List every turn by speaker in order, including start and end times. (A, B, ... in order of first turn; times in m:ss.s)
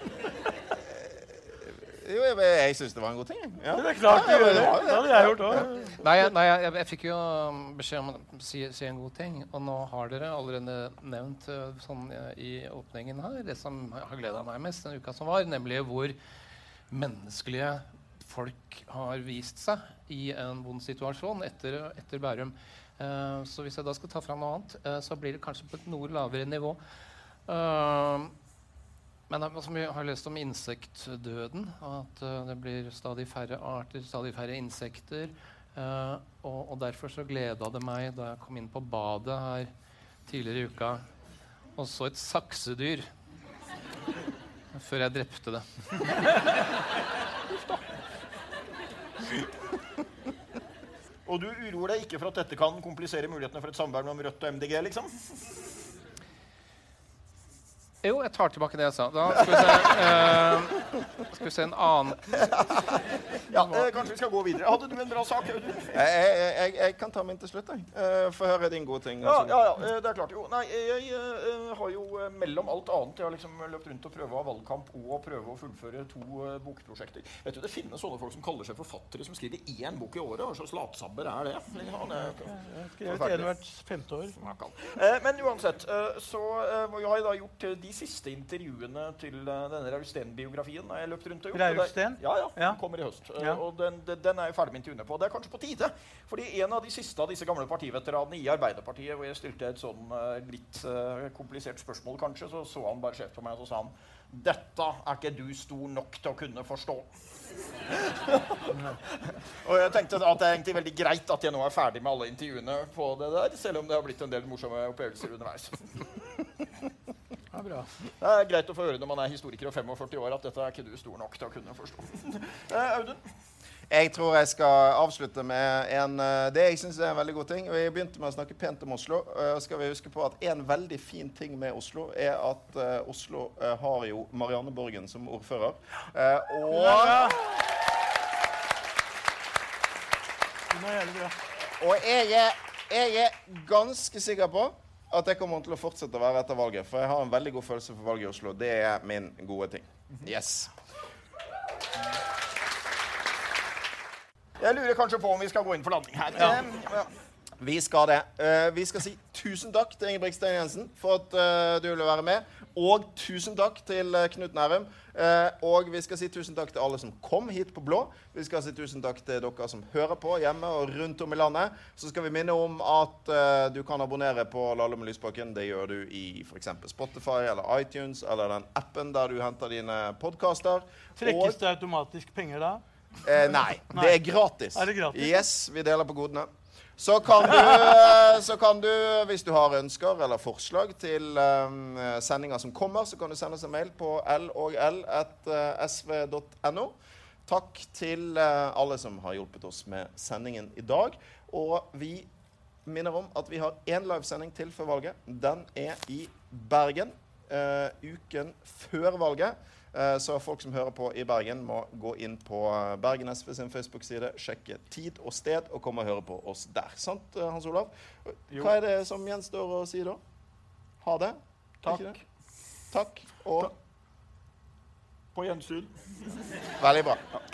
0:00.8-0:06.0 A
0:03.7-0:06.0 B
0:06.0-0:16.2 C
0:16.9-0:26.8 C
0:27.5-0:28.3 C
0:29.3-0:39.7 C
0:40.3-0:41.0 C
0:41.8-0:43.1 C
0:44.7-0:45.7 C
0:47.5-0:47.8 D
0:51.3-0:55.6 D
0:58.0-1:02.6 C
0:59.5-0:59.9 D
1:03.5-1:06.0 D
1:03.6-1:03.8 C
1:05.9-1:09.6 A
1:09.2-1:22.5 D
1:22.5-1:24.4 B
1:23.1-1:23.5 D
1:24.4-1:47.1 D
1:31.5-1:32.8 B
1:48.0-1:56.2 D
1:57.5-1:57.9 B
1:58.2-2:03.3 D
2:03.9-2:17.6 A
2:16.7-2:17.5 B
2:20.7-2:21.4 B
2:21.8-2:30.7 A
2:34.6-2:37.1 D
2:37.6-3:01.6 A
3:01.2-3:02.8 B
3:03.2-3:16.9 A
3:03.9-3:04.2 B
3:04.7-3:05.4 B
3:17.5-3:22.3 A
3:22.9-3:40.2 A
3:41.0-3:42.1 A
3:41.8-3:42.2 D
3:42.9-3:43.7 A
3:45.4-3:46.4 D
3:46.8-3:47.2 A